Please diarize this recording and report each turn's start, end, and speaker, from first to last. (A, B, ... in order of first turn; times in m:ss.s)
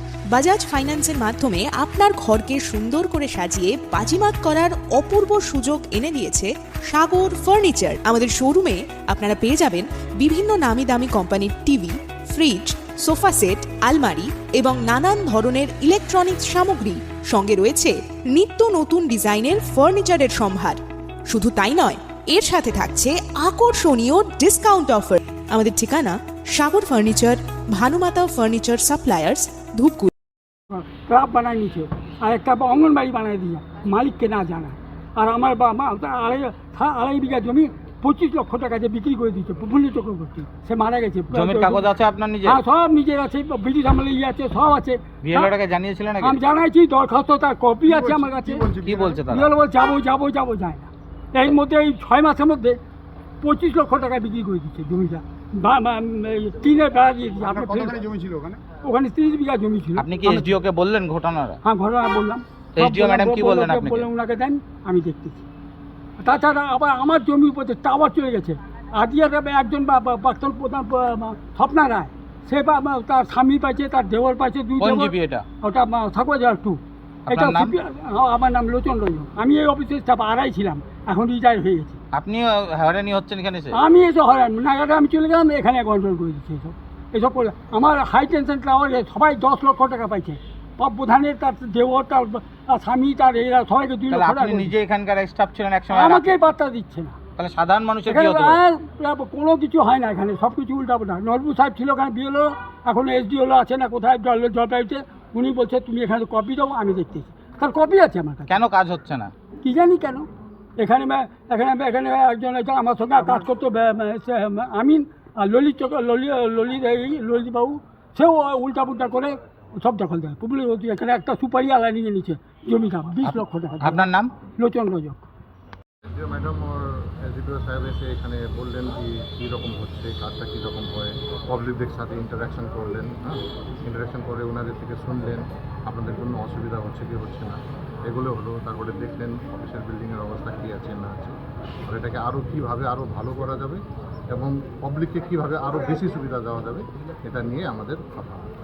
0:00.3-0:30.1 A
0:30.7-0:41.9 B
0:41.3-0:42.6 C
0:42.4-0:45.5 B
0:45.2-0:46.4 C
0:46.2-0:48.7 B
0:47.9-0:49.3 D
0:48.8-0:49.5 C
0:49.3-0:52.8 B
0:53.4-0:58.0 B
0:57.4-0:58.8 D
0:58.8-1:00.6 B
1:00.0-1:01.6 C
1:01.6-1:05.4 B
1:02.8-1:04.1 C
1:06.2-1:22.0 B
1:14.8-1:15.4 C
1:17.3-1:17.7 C
1:22.1-1:23.7 C
1:23.7-1:34.7 B
1:34.1-1:36.4 C
1:35.9-1:37.2 B
1:37.4-1:38.6 C
1:38.1-1:48.6 B
1:48.5-1:49.3 C
1:49.6-1:50.3 B
1:50.8-2:05.2 B
2:03.2-2:04.3 C
2:06.0-2:17.6 E
2:18.1-2:21.4 E
2:21.9-2:23.8 E
2:24.3-2:28.5 E